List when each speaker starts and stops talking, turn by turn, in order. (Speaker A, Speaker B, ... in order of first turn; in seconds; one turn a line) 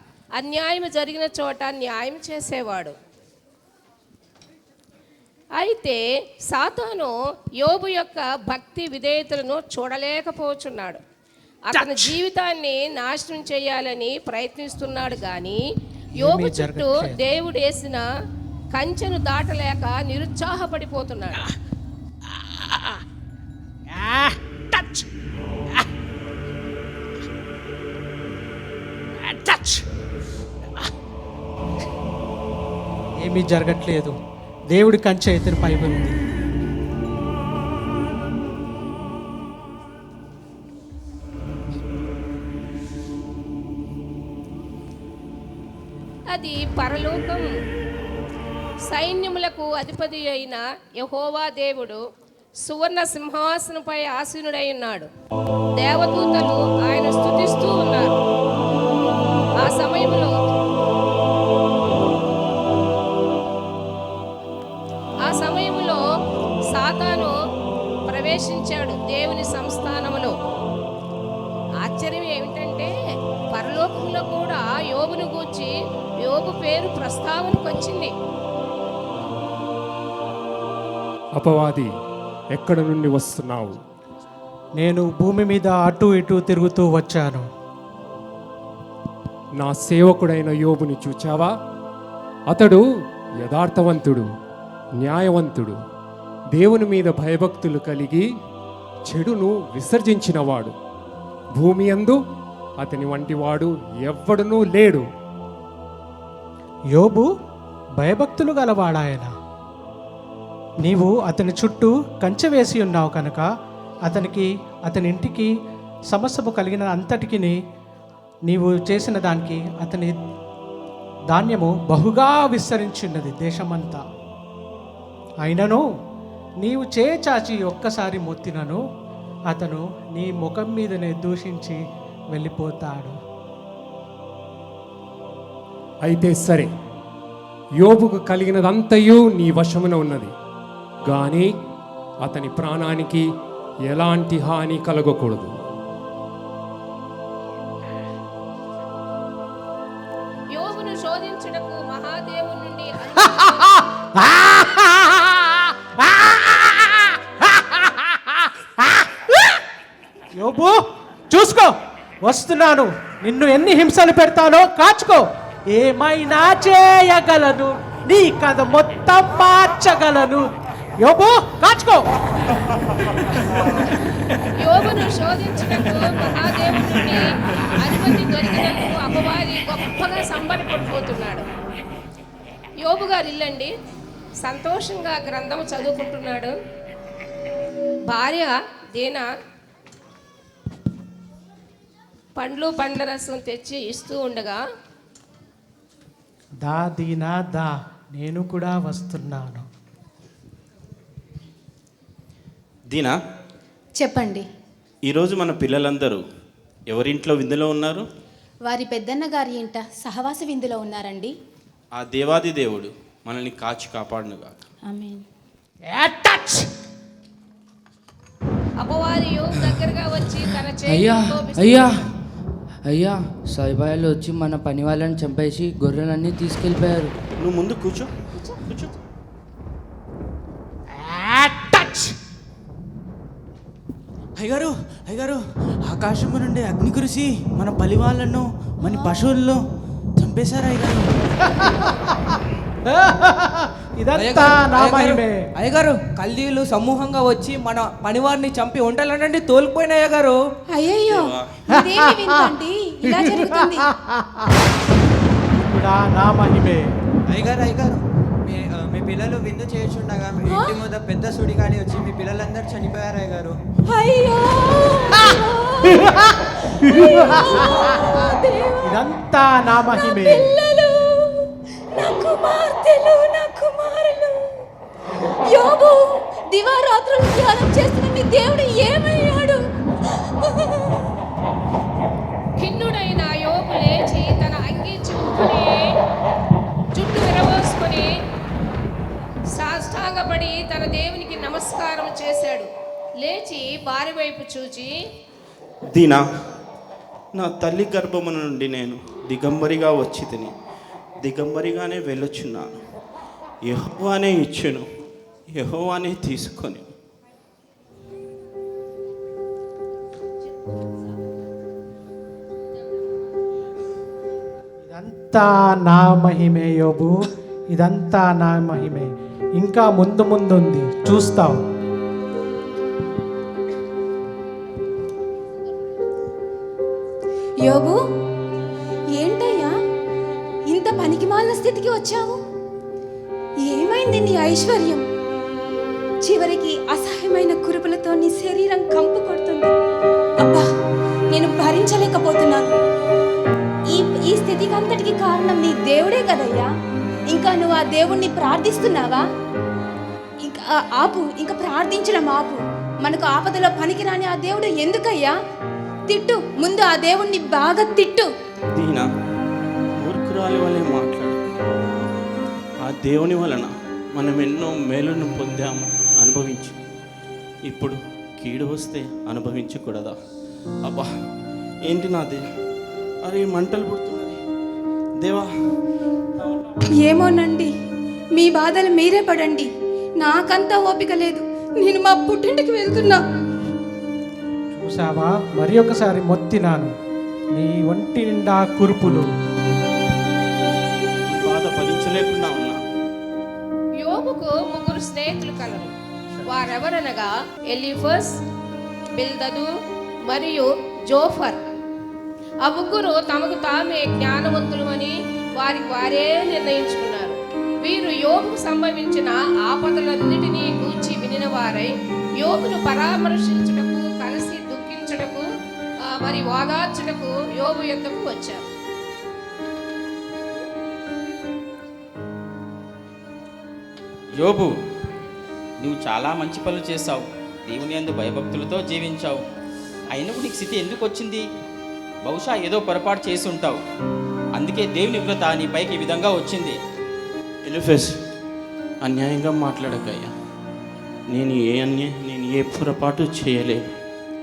Speaker A: 0.4-2.9
Speaker A: 5.6-11.0
Speaker A: 11.7-15.6
Speaker A: 16.2-18.0
Speaker B: 16.2-17.2
Speaker A: 18.7-21.5
Speaker B: 23.9-25.0
Speaker B: 29.3-29.8
Speaker B: 33.2-34.1
Speaker B: 34.7-36.2
Speaker A: 46.3-47.5
Speaker A: 48.9-52.0
Speaker A: 52.6-55.1
Speaker A: 55.8-58.2
Speaker A: 59.6-60.3
Speaker A: 65.2-66.0
Speaker A: 66.7-67.3
Speaker A: 68.1-70.3
Speaker A: 71.8-72.9
Speaker A: 73.5-75.7
Speaker A: 76.2-78.1
Speaker C: 81.4-81.9
Speaker C: 82.5-83.8
Speaker B: 84.8-87.4
Speaker C: 89.6-91.5
Speaker C: 92.5-92.8
Speaker C: 93.4-94.2
Speaker C: 95.0-95.8
Speaker C: 96.5-98.2
Speaker C: 99.1-100.7
Speaker C: 101.5-102.2
Speaker C: 102.8-105.0
Speaker B: 106.9-107.3
Speaker B: 108.0-109.3
Speaker B: 110.8-113.4
Speaker B: 114.0-115.5
Speaker B: 116.1-117.6
Speaker B: 118.5-120.2
Speaker B: 121.3-124.0
Speaker B: 125.4-125.8
Speaker B: 126.6-128.8
Speaker B: 129.5-131.8
Speaker B: 132.3-133.1
Speaker C: 136.0-136.7
Speaker C: 137.8-140.3
Speaker C: 141.1-141.5
Speaker C: 142.2-143.2
Speaker C: 143.8-145.5
Speaker A: 150.5-153.8
Speaker B: 154.1-159.0
Speaker B: 160.4-160.8
Speaker B: 161.3-170.4
Speaker B: 171.0-172.0
Speaker A: 174.6-181.5
Speaker A: 182.8-183.7
Speaker A: 184.4-186.5
Speaker A: 188.1-189.2
Speaker A: 192.4-194.6
Speaker B: 196.6-199.6
Speaker D: 204.0-204.5
Speaker E: 205.1-206.2
Speaker E: 206.9-208.0
Speaker D: 208.6-211.3
Speaker E: 211.9-214.6
Speaker D: 214.8-215.2
Speaker A: 218.8-221.9
Speaker F: 220.9-222.0
Speaker F: 222.8-227.1
Speaker E: 227.4-228.1
Speaker G: 231.7-232.0
Speaker G: 234.4-239.6
Speaker G: 240.2-241.1
Speaker B: 242.9-245.5
Speaker H: 244.1-250.4
Speaker D: 250.7-253.9
Speaker E: 251.1-251.4
Speaker B: 251.7-252.5
Speaker B: 253.1-254.1
Speaker B: 255.7-256.9
Speaker I: 257.3-263.5
Speaker D: 260.4-260.9
Speaker D: 263.9-269.0
Speaker B: 268.8-270.6
Speaker D: 269.8-274.4
Speaker D: 275.4-279.6
Speaker D: 280.4-281.1
Speaker A: 282.6-285.8
Speaker A: 286.9-288.1
Speaker A: 289.5-292.7
Speaker A: 293.2-294.9
Speaker E: 295.9-296.2
Speaker E: 297.4-300.5
Speaker E: 301.2-302.8
Speaker E: 303.6-304.8
Speaker E: 305.5-306.9
Speaker B: 314.9-317.1
Speaker B: 317.7-321.6
Speaker D: 327.6-327.9
Speaker D: 329.2-329.7
Speaker D: 330.7-332.4
Speaker D: 333.6-335.0
Speaker D: 336.2-339.7
Speaker D: 340.4-340.6
Speaker D: 341.3-342.7
Speaker D: 343.9-346.7
Speaker D: 347.3-349.2
Speaker D: 350.4-355.3
Speaker D: 356.1-358.3
Speaker E: 358.8-359.1
Speaker E: 360.0-361.4
Speaker E: 362.8-366.8
Speaker E: 367.7-370.1
Speaker E: 371.9-372.4
Speaker E: 373.2-374.4
Speaker E: 375.2-375.5
Speaker D: 377.0-377.7
Speaker D: 378.3-379.7
Speaker D: 380.2-383.2
Speaker B: 384.7-386.9
Speaker B: 387.5-389.2
Speaker E: 391.3-392.8
Speaker A: 394.0-395.9
Speaker A: 396.5-398.3
Speaker A: 399.2-399.7
Speaker A: 400.3-401.6
Speaker A: 402.6-415.4
Speaker A: 416.1-418.6
Speaker J: 424.3-424.7
Speaker J: 425.8-429.4
Speaker J: 430.1-431.4
Speaker J: 432.2-433.8
Speaker J: 434.5-436.8
Speaker E: 437.6-438.1
Speaker E: 439.0-440.3
Speaker E: 441.3-443.8